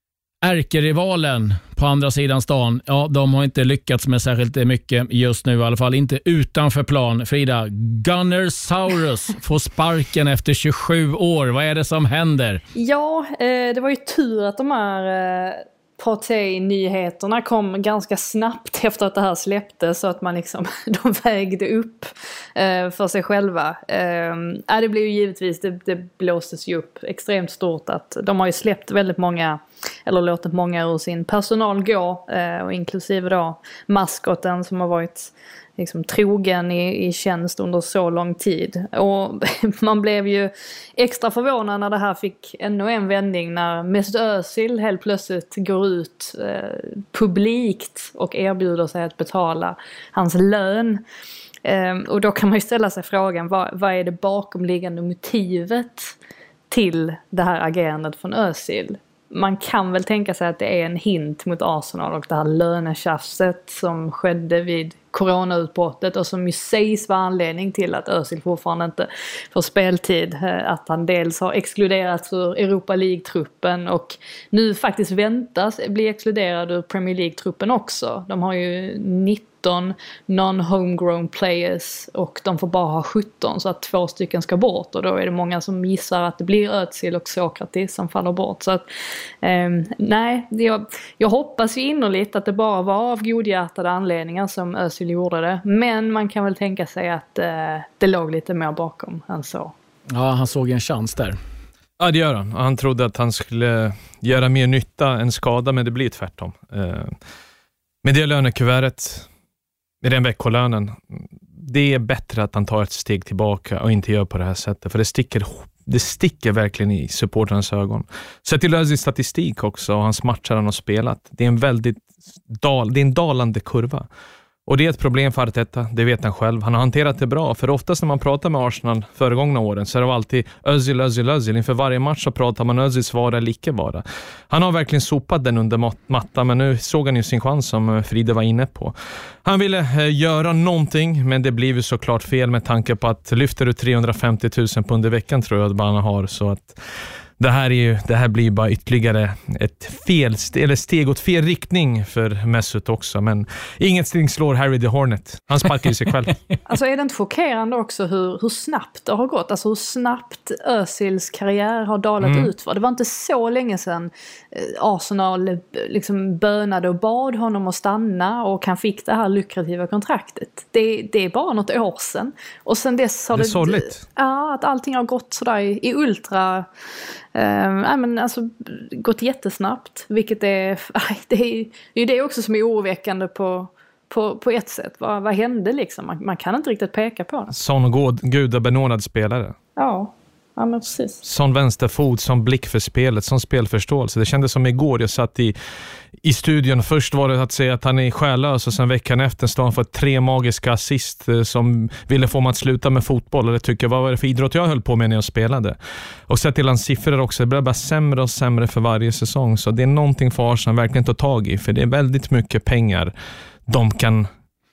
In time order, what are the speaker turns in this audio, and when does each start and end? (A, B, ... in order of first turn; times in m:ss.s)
0:00.4-0:12.6 A
0:12.7-0:51.0 B
0:51.6-0:56.1 B
0:56.7-1:28.9 B
1:29.4-1:39.7 B
1:40.1-1:41.4 A
1:42.0-1:47.1 C
1:48.0-1:49.3 C
1:50.0-2:04.1 C
2:04.6-2:26.8 C
2:27.4-2:36.4 C
2:36.6-2:56.7 B
2:42.2-2:42.5 C
2:53.3-2:54.0 C
2:57.3-3:07.5 B
3:07.5-3:09.5 C
3:09.8-3:11.2 B
3:11.2-3:15.6 C
3:16.2-3:25.8 C
3:26.3-3:33.1 C
3:33.7-3:34.3 C